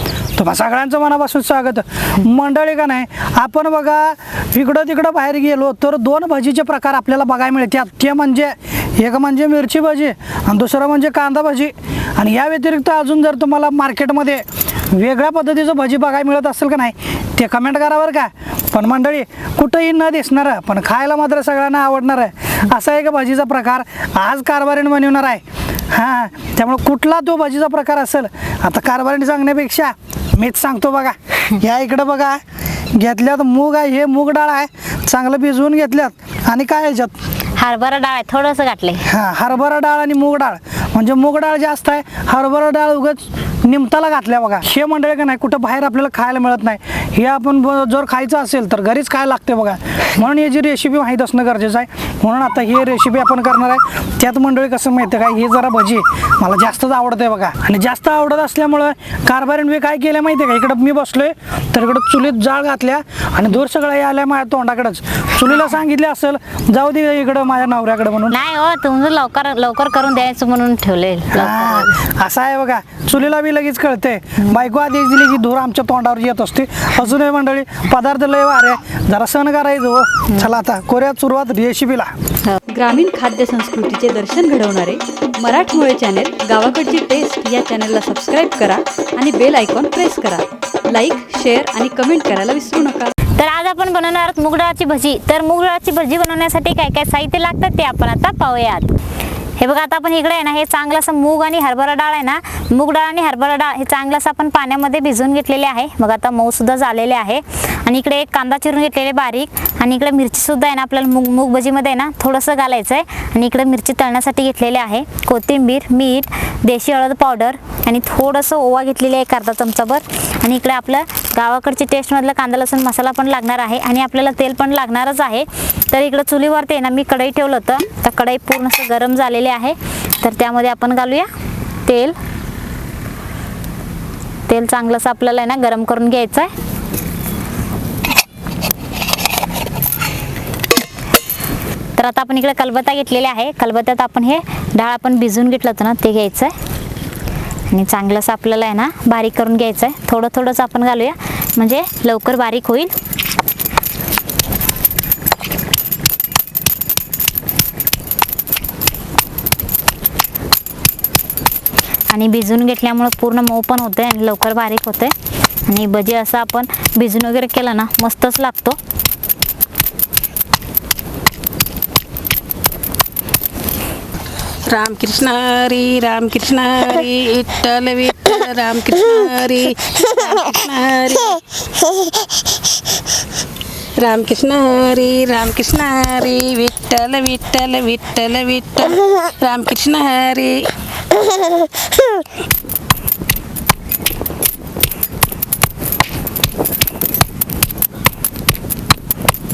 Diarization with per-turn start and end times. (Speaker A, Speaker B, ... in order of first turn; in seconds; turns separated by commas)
Speaker A: 0.4-32.4, Speaker A: 32.9-37.1, Speaker B: 37.6-39.0, Speaker A: 39.1-68.4, Speaker B: 68.3-72.0, Speaker A: 71.3-82.1, Speaker C: 82.7-93.2, Speaker B: 93.4-98.9, Speaker B: 99.6-131.3, Speaker B: 131.8-132.2, Speaker B: 134.5-136.5, Speaker B: 142.0-146.5, Speaker B: 147.7-152.9, Speaker B: 162.1-165.1, Speaker B: 165.7-168.8, Speaker D: 174.7-181.4, Speaker D: 184.0-190.7